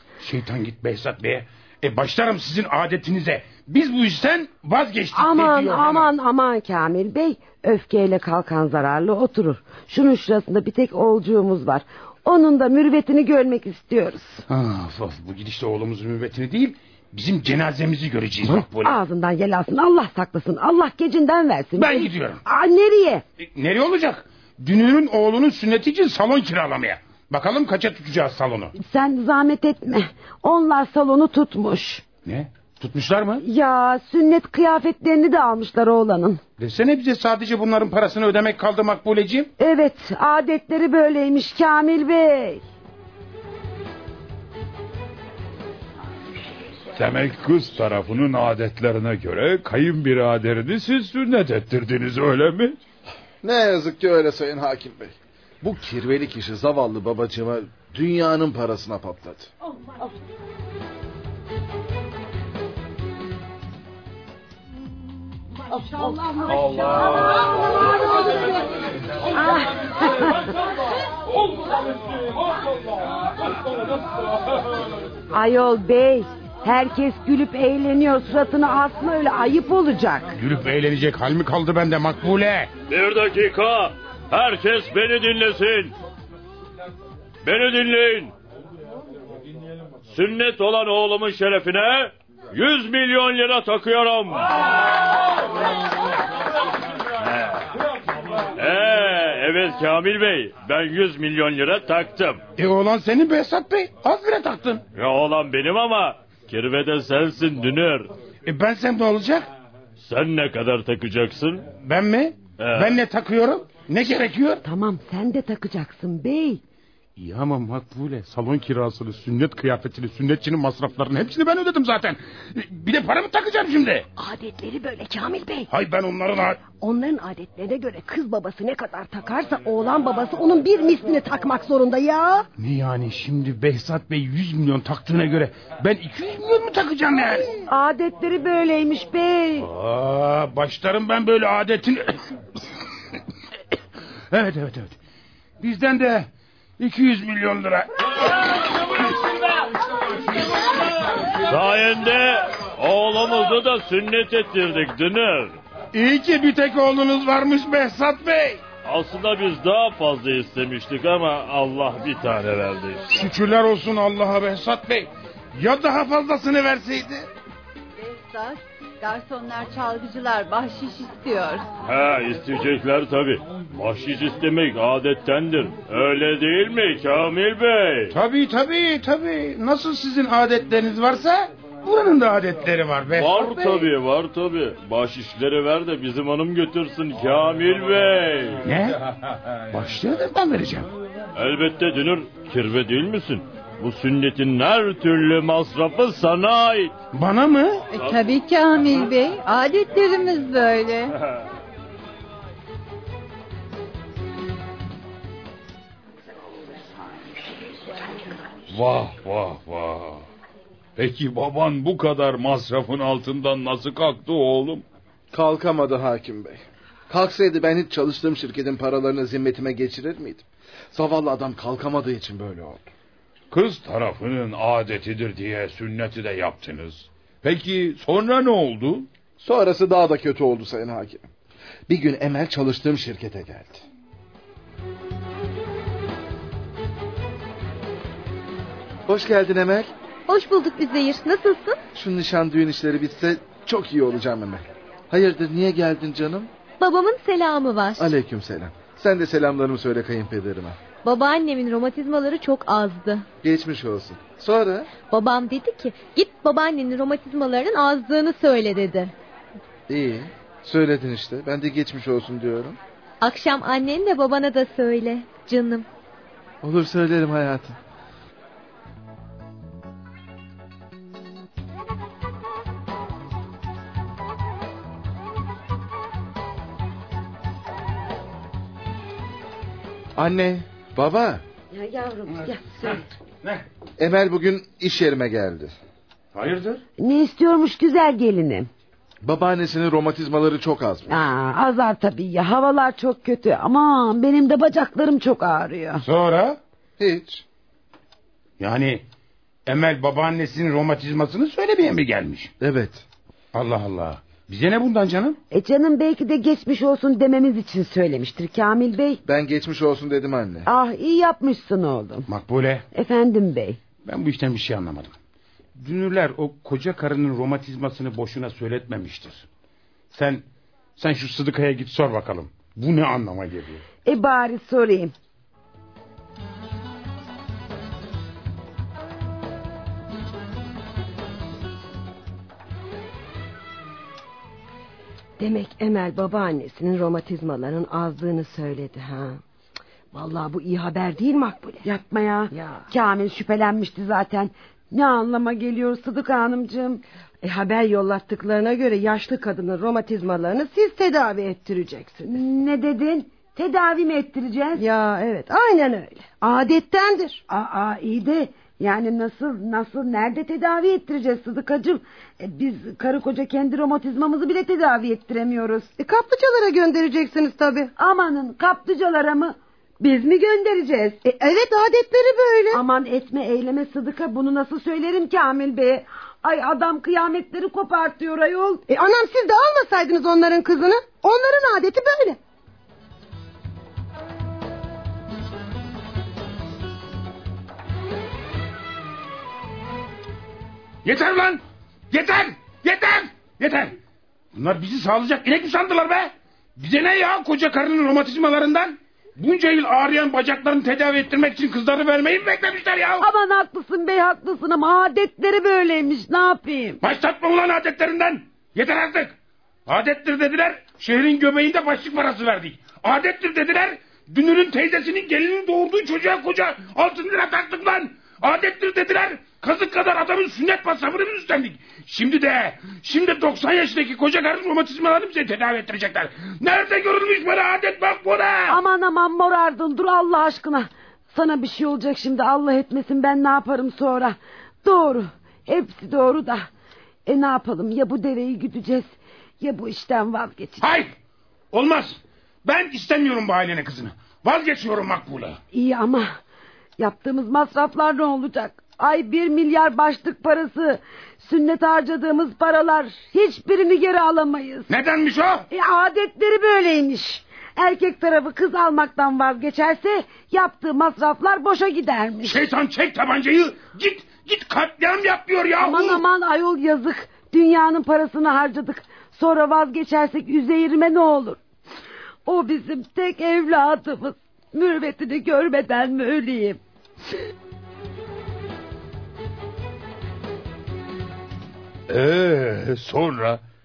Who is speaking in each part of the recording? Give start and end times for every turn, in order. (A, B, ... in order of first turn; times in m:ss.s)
0:00.2-0:06.1 A
0:05.1-0:14.4 B
0:14.5-0:18.9 A
0:18.4-0:23.2 B
0:21.8-0:22.4 A
0:23.4-0:28.7 A
0:28.8-0:32.0 B
0:32.2-0:33.4 A
0:33.4-0:36.4 B
0:36.6-0:39.5 A
0:39.6-0:42.6 B
0:46.9-0:52.8 C
0:53.4-0:59.5 D
1:05.7-1:08.0 B
1:05.8-1:08.5 E
1:09.3-1:10.5 B
1:15.3-1:20.3 B
1:20.3-1:22.7 A
1:22.9-1:25.9 F
1:27.4-1:28.3 F
1:30.1-1:34.5 F
1:37.2-1:37.7 F
1:38.5-1:42.4 F
1:42.6-1:44.8 A
1:44.9-1:48.1 F
1:48.4-1:49.5 A
1:50.0-1:51.7 F
1:51.8-1:54.6 A
1:52.6-1:52.9 F
1:54.6-1:56.6 B
1:57.2-2:04.1 A
2:04.2-2:05.7 E
2:05.7-2:06.6 A
2:06.7-2:12.5 E
2:12.6-2:17.5 A
2:17.6-2:19.7 B
2:19.6-2:22.3 A
2:24.3-2:24.9 A
2:25.6-2:29.1 A
2:31.3-2:35.6 F
2:35.9-2:38.6 A
2:38.8-2:43.1 F
2:43.1-2:47.3 A
2:48.0-2:51.6 G
2:51.8-2:58.1 F
2:58.1-3:03.9 A
3:03.1-3:08.6 F
3:08.6-3:09.0 A
3:09.7-3:10.9 A
3:11.3-3:16.9 F
3:17.1-3:17.8 A
3:17.9-3:18.2 F
3:17.9-3:21.1 G
3:28.7-3:30.2 C
3:31.0-3:34.8 C
3:35.3-3:42.9 D
3:43.5-3:49.1 C
3:49.4-3:51.3 D
3:51.9-3:53.8 D
3:59.1-3:59.9 D
4:00.3-4:01.8 H
4:01.9-4:06.5 D
4:06.8-4:08.1 H
4:08.0-4:10.8 D
4:11.0-4:13.2 H
4:13.4-4:14.9 D
4:15.1-4:19.1 H
4:19.9-4:22.8 D
4:23.2-4:25.8 H
4:26.6-4:27.8 D
4:40.2-4:41.4 D
4:41.7-4:43.0 B
4:42.4-4:43.6 A
4:44.0-4:45.7 D
4:46.3-4:46.8 A
4:47.0-4:48.7 B
4:49.2-4:51.2 D
4:51.1-4:56.0 B
4:56.0-4:56.6 A
4:57.0-4:57.4 D
4:58.6-4:59.0 A
4:59.6-5:02.5 A
5:02.6-5:03.0 D
5:03.5-5:05.4 A
5:05.5-5:09.2 B
5:09.2-5:10.7 D
5:10.6-5:12.3 B
5:12.3-5:12.8 A
5:12.9-5:13.8 B
5:14.0-5:15.1 A
5:15.8-5:19.5 A
5:20.1-5:20.4 A
5:21.0-5:23.8 A
5:24.0-5:25.1 B
5:35.4-5:39.4 E
5:40.1-5:41.8 E
5:41.8-5:47.0 B
5:42.5-5:42.9 E
5:47.4-5:52.3 E
5:52.2-5:54.8 B
5:54.8-5:57.4 E
5:57.5-6:05.9 B
6:06.0-6:07.9 E
6:08.0-6:11.2 B
6:11.2-6:12.8 E
6:12.7-6:18.8 B
6:18.9-6:22.4 E
6:31.0-6:34.0 A
6:34.5-6:43.2 A
6:43.2-6:47.0 B
6:47.0-6:49.3 A
6:49.8-7:08.8 A
7:08.7-7:16.6 B
7:17.2-7:20.8 B
7:20.8-7:21.1 A
7:21.7-7:25.6 A
7:25.7-7:26.4 B
7:27.0-7:34.9 B
7:34.9-7:35.6 A
7:35.7-7:42.6 B
7:42.4-7:46.2 A
7:45.8-7:51.6 B
7:52.4-7:56.8 B
8:02.1-8:03.6 C